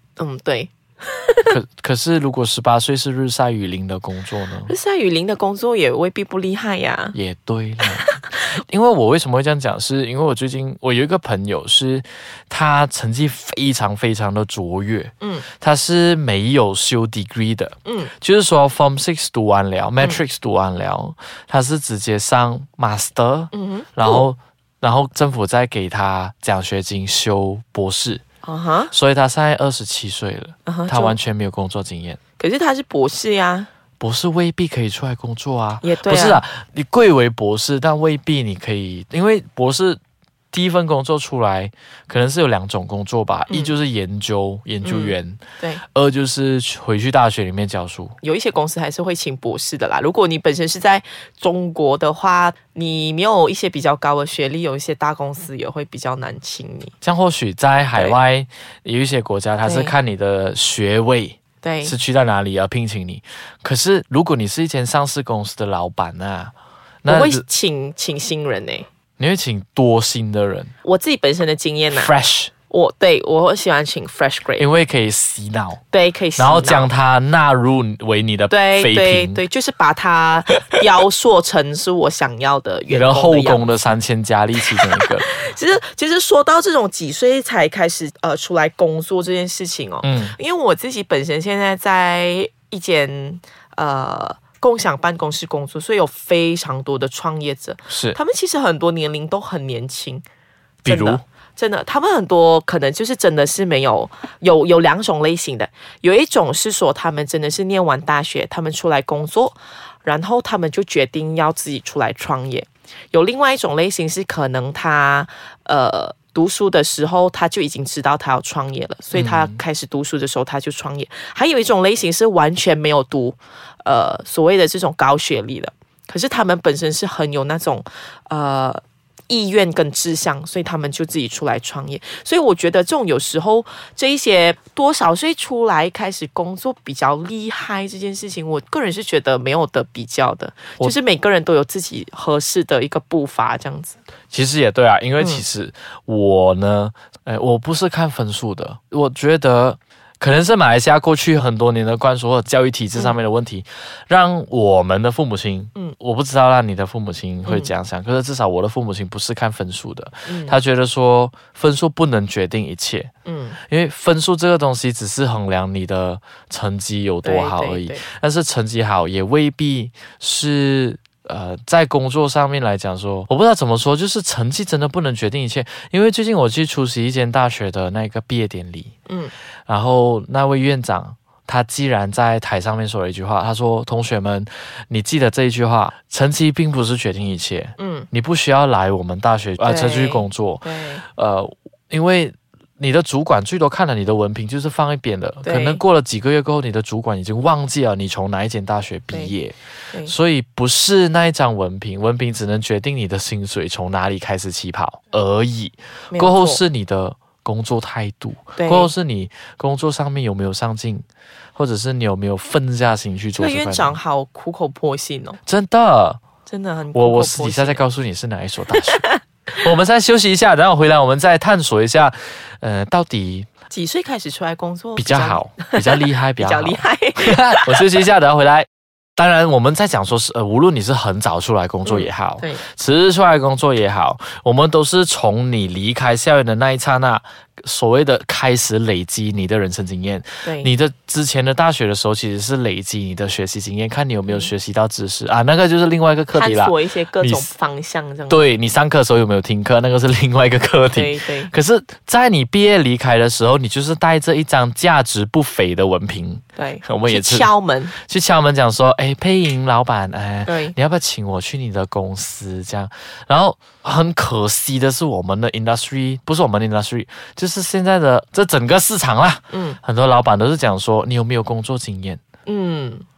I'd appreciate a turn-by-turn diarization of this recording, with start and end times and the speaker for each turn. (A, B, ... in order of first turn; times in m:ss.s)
0:00.2-0:01.5 A
0:01.4-0:04.7 B
0:04.7-0:07.2 A
0:07.1-0:28.2 B
0:15.2-0:15.4 A
0:17.8-0:18.1 A
0:23.5-0:24.3 A
0:28.4-0:28.9 A
0:28.9-0:32.2 B
0:30.6-0:31.2 A
0:32.4-0:33.7 A
0:34.0-0:40.0 B
0:35.8-0:36.4 A
0:40.5-0:45.4 B
0:43.5-0:43.7 A
0:44.8-0:45.8 A
0:45.9-0:48.2 B
0:48.2-0:56.9 A
0:57.0-1:07.4 B
0:59.6-0:59.9 A
1:01.6-1:01.9 A
1:07.1-1:08.9 A
1:09.2-1:10.7 B
1:10.8-1:12.1 A
1:11.9-1:12.5 B
1:12.7-1:14.7 A
1:14.6-1:15.8 B
1:15.9-1:16.9 A
1:16.4-1:19.4 B
1:18.5-1:23.7 A
1:22.9-1:25.3 B
1:24.7-1:40.2 A
1:30.0-1:30.4 B
1:37.9-1:38.2 B
1:40.8-2:24.0 A
1:40.8-1:41.2 B
1:59.1-1:59.6 B
2:24.3-2:43.1 B
2:37.4-2:37.7 A
2:40.2-2:40.6 A
2:43.2-2:43.6 A
2:43.7-2:58.9 B
2:47.2-2:48.0 A
2:59.7-3:31.0 B
3:07.8-3:08.1 A
3:09.6-3:11.0 A
3:15.4-3:15.8 A
3:26.1-3:26.6 A
3:28.6-3:28.9 A
3:31.5-3:34.0 B
3:33.4-3:35.4 A
3:35.4-3:36.2 B
3:36.5-3:37.8 A
3:36.9-3:43.5 B
3:43.7-3:47.8 A
3:45.0-4:07.5 B
3:51.8-3:52.6 A
4:00.4-4:00.7 A
4:06.3-4:08.4 A
4:08.3-4:32.2 B
4:10.9-4:11.5 A
4:16.6-4:17.9 A
4:20.4-4:20.7 A
4:29.5-4:29.8 A
4:32.4-4:33.0 A